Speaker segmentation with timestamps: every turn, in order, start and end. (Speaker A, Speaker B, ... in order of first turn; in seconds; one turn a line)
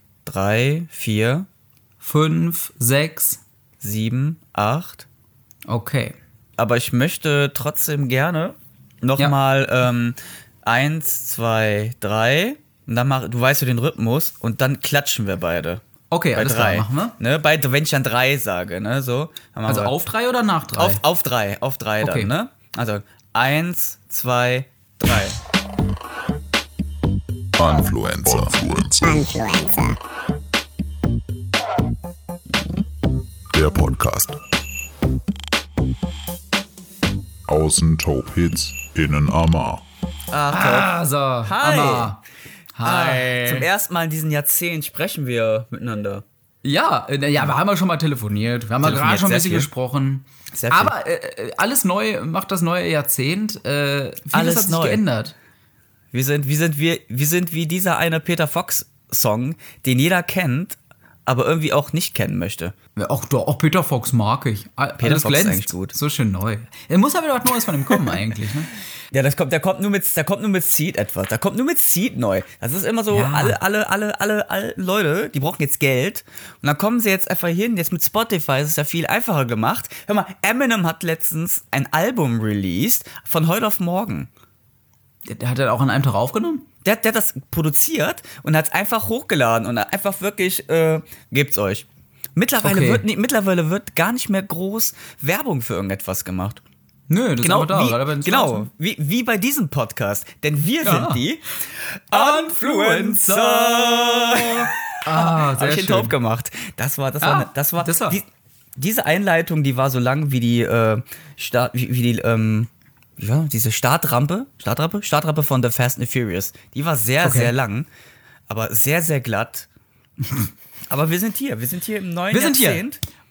Speaker A: 0.2-1.5
Speaker B: 2.0-3.4
Speaker A: 3.8-5.1
Speaker B: 5.7-6.2
Speaker A: 6.6-15.8
Speaker B: 16.1-17.2
Speaker A: 16.4-19.9
Speaker B: 19.7-21.0
Speaker A: 20.8-25.4
Speaker B: 22.0-22.3
Speaker C: 27.6-30.0
Speaker C: 33.5-34.4
Speaker C: 37.5-39.8
Speaker A: 40.3-40.9
Speaker B: 40.5-42.2
Speaker A: 41.4-42.2
Speaker B: 42.8-43.7
Speaker A: 42.8-46.2
Speaker B: 46.6-55.4
Speaker A: 48.8-49.7
Speaker A: 50.5-50.9
Speaker A: 54.3-55.0
Speaker A: 56.1-62.8
Speaker B: 63.0-68.7
Speaker A: 65.0-66.0
Speaker A: 69.1-84.3
Speaker B: 73.1-73.6
Speaker B: 85.3-86.7
Speaker A: 86.8-96.6
Speaker B: 92.6-93.0
Speaker B: 97.1-98.7
Speaker A: 97.4-117.9
Speaker B: 100.8-101.2
Speaker B: 102.1-106.1
Speaker B: 107.2-108.2
Speaker B: 117.2-117.5
Speaker A: 118.5-119.7
Speaker A: 120.9-123.0
Speaker B: 122.3-122.8